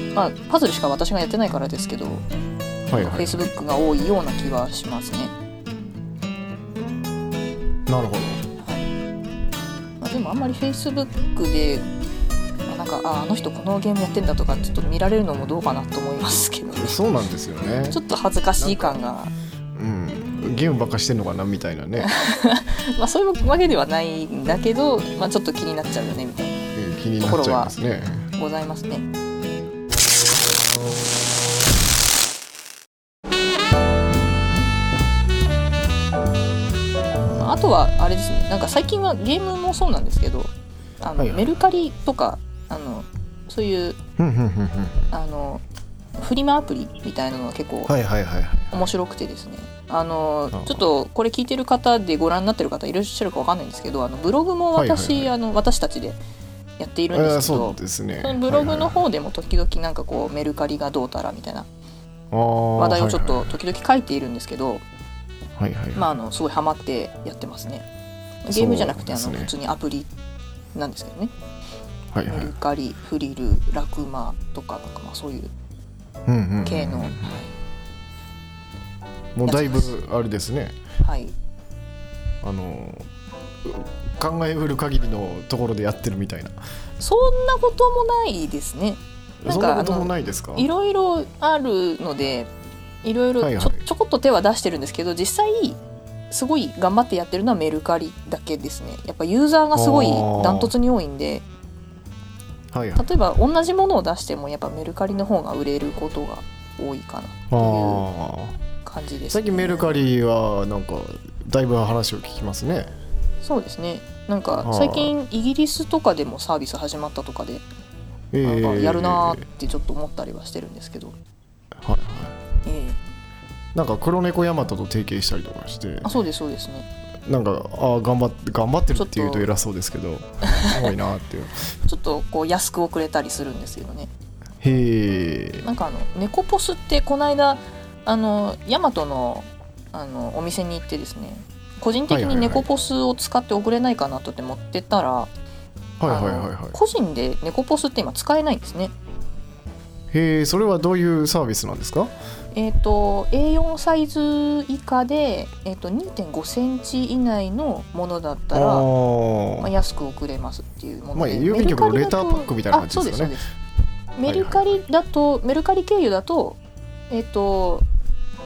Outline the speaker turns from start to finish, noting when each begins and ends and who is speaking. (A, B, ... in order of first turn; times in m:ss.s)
0:00.1-0:02.2 A
0:02.9-0:03.5 B
0:02.9-0:05.3 A
0:07.9-0:08.4 B
0:08.6-0:08.9 A
0:10.0-0:11.8 A
0:12.7-0:17.0 A
0:16.8-0:18.0 B
0:17.9-0:19.3 A
0:18.6-0:19.0 B
0:19.8-0:22.1 B
0:22.0-0:27.7 A
0:26.7-0:28.3 B
0:28.4-0:29.0 A
0:37.2-0:44.0 A
0:41.2-0:41.5 B
0:44.2-0:45.1 B
0:45.1-0:45.6 A
0:46.2-0:47.9 A
0:47.9-0:48.9 B
0:48.7-0:56.2 A
0:50.5-0:50.8 B
0:54.7-0:55.3 B
0:56.8-1:01.7 A
0:57.1-0:59.0 B
1:02.3-1:03.6 B
1:02.8-1:04.8 A
1:05.6-1:06.1 B
1:05.9-1:07.8 A
1:08.4-1:10.1 A
1:08.5-1:09.5 B
1:10.7-1:11.3 A
1:12.1-1:12.5 B
1:12.3-1:15.5 A
1:16.2-1:17.4 B
1:16.6-1:17.5 A
1:19.3-1:20.8 B
1:19.4-1:20.0 A
1:21.0-1:21.3 A
1:22.4-1:23.1 B
1:23.6-1:26.6 B
1:27.0-1:32.5 A
1:29.4-1:30.7 B
1:33.0-1:35.8 A
1:33.4-1:33.8 B
1:36.3-1:41.4 A
1:39.7-1:40.7 B
1:42.7-1:43.1 B
1:43.0-1:48.0 A
1:47.5-1:48.6 B
1:48.8-1:50.0 A
1:49.3-1:52.9 B
1:53.4-1:57.6 A
1:54.6-1:55.1 B
1:58.3-1:59.4 B
1:58.4-2:01.2 A
2:01.8-2:02.4 B
2:02.6-2:03.0 A
2:03.7-2:06.1 B
2:06.0-2:06.9 A
2:07.2-2:11.7 B
2:08.9-2:09.5 A
2:10.5-2:10.9 A
2:11.8-2:14.1 A
2:14.6-2:15.6 B
2:15.6-2:25.3 A
2:22.1-2:22.6 B
2:26.0-2:26.8 B
2:26.0-2:28.9 A
2:30.1-2:32.1 B
2:32.5-2:38.9 A
2:38.5-2:39.7 B
2:39.6-2:43.5 A
2:41.2-2:43.4 B
2:44.2-2:46.6 A
2:44.2-2:44.8 B
2:47.1-2:47.8 A